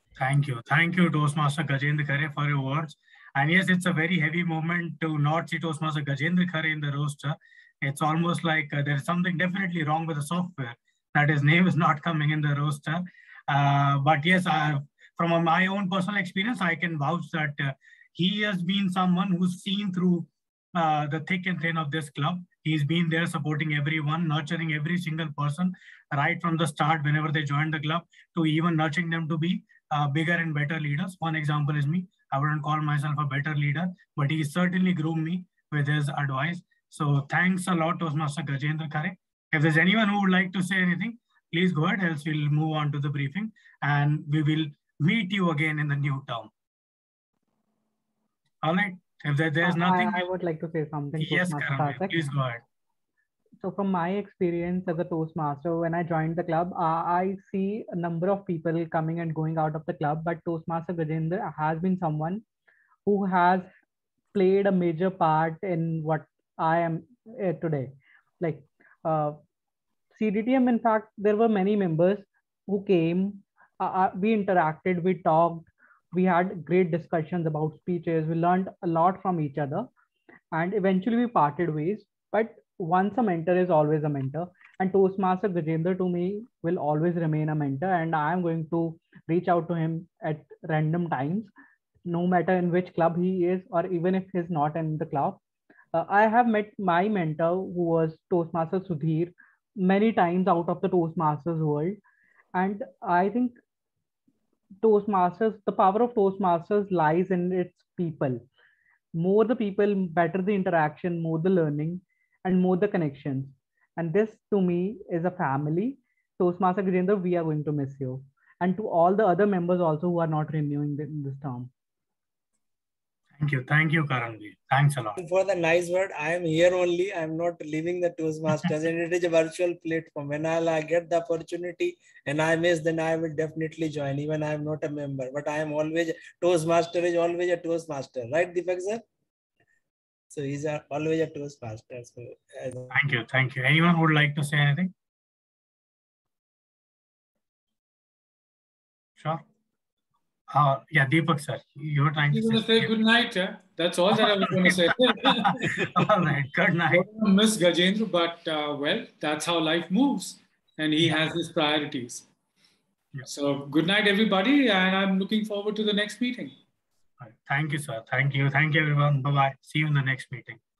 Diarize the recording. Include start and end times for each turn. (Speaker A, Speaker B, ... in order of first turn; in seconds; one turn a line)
Speaker A: 0.2-46.5
Speaker A: 48.6-50.2
Speaker B: 49.6-52.3
Speaker A: 51.2-52.6
Speaker B: 53.6-62.4
Speaker B: 63.0-63.7
Speaker B: 64.3-69.4
Speaker B: 70.1-79.9
Speaker B: 80.5-91.5
Speaker B: 92.1-95.4
Speaker B: 95.9-102.0
Speaker B: 102.5-103.6
Speaker B: 104.8-108.4
Speaker B: 109.2-121.7
Speaker A: 123.4-125.2
Speaker C: 125.2-139.0
Speaker C: 140.3-142.9
Speaker A: 142.9-144.9
Speaker A: 149.2-149.4
Speaker A: 150.5-152.9
Speaker D: 152.3-162.2
Speaker A: 154.2-157.0
Speaker D: 163.2-166.6
Speaker A: 167.2-170.6